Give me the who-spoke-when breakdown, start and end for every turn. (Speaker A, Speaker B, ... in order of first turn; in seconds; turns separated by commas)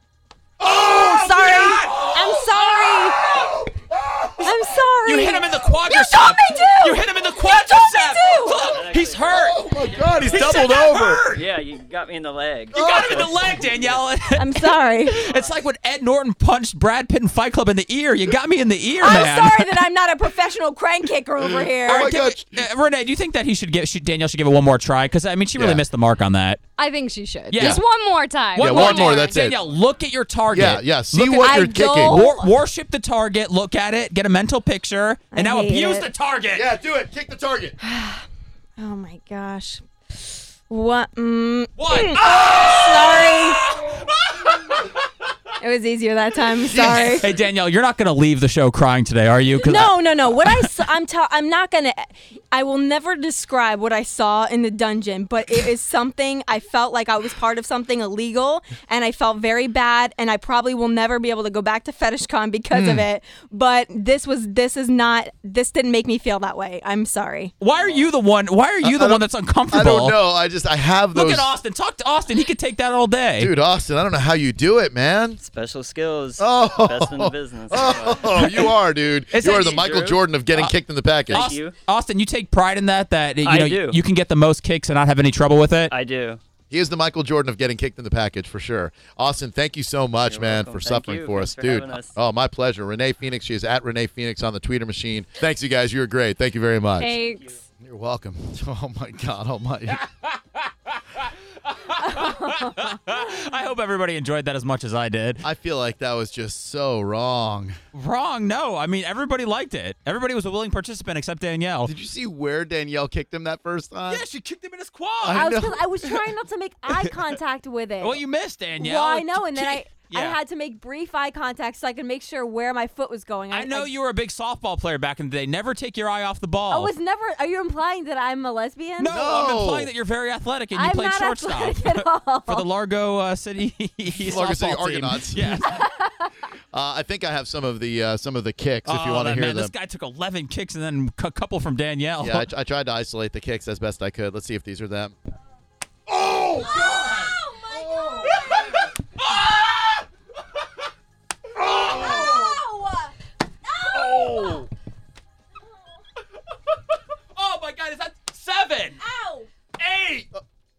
Speaker A: 0.6-1.9, Speaker B: 0.6-3.6, Speaker C: 0.7-3.3, Speaker A: 3.4-4.5, Speaker C: 4.4-8.7, Speaker B: 5.0-11.3, Speaker D: 8.7-10.6, Speaker A: 9.3-11.4, Speaker C: 10.6-10.9, Speaker D: 11.3-14.0, Speaker A: 12.7-13.6, Speaker B: 12.7-19.8, Speaker C: 14.3-15.3, Speaker D: 15.2-15.6, Speaker C: 19.0-22.1, Speaker A: 21.4-22.7, Speaker B: 21.9-26.6, Speaker A: 25.6-25.8, Speaker E: 26.8-29.4, Speaker B: 27.5-27.8, Speaker A: 27.5-27.8, Speaker B: 28.5-36.7, Speaker A: 28.6-29.6, Speaker A: 30.5-32.2, Speaker C: 31.4-32.5, Speaker C: 35.3-36.1, Speaker A: 36.5-37.8, Speaker C: 37.8-38.2, Speaker C: 38.8-43.8, Speaker B: 41.8-44.9, Speaker C: 45.6-47.3, Speaker A: 46.6-47.3, Speaker B: 46.8-50.7, Speaker C: 49.6-67.5, Speaker A: 62.7-63.0, Speaker B: 67.6-70.2, Speaker D: 67.7-68.0, Speaker A: 68.8-71.5, Speaker B: 71.1-73.5, Speaker A: 73.4-75.4, Speaker D: 75.4-78.7, Speaker A: 76.4-81.4, Speaker B: 78.3-78.7, Speaker B: 79.3-80.7, Speaker D: 79.4-80.2, Speaker D: 81.3-81.8, Speaker B: 81.3-85.9, Speaker D: 83.4-84.0, Speaker D: 85.9-86.4, Speaker A: 86.7-97.2, Speaker D: 90.2-92.2, Speaker E: 97.0-97.6, Speaker A: 97.8-100.0, Speaker B: 99.9-100.4, Speaker B: 100.9-105.4, Speaker C: 102.0-103.0, Speaker A: 105.4-107.8, Speaker B: 107.9-111.9, Speaker A: 111.8-114.2, Speaker B: 114.1-115.5, Speaker A: 115.2-116.2, Speaker C: 115.3-118.2, Speaker B: 118.0-120.4, Speaker C: 118.8-123.9, Speaker B: 123.5-126.9, Speaker C: 126.7-129.2, Speaker B: 129.0-135.8, Speaker A: 129.1-129.9, Speaker C: 130.7-132.7, Speaker A: 134.1-135.8, Speaker A: 136.7-139.7, Speaker B: 138.8-142.4, Speaker A: 142.2-145.1, Speaker A: 146.1-148.7, Speaker C: 146.6-148.8, Speaker B: 148.5-150.0, Speaker A: 151.6-152.6, Speaker C: 151.7-153.1, Speaker C: 153.7-154.5, Speaker A: 153.9-154.7, Speaker B: 157.3-159.0, Speaker C: 159.0-159.5, Speaker A: 159.8-160.4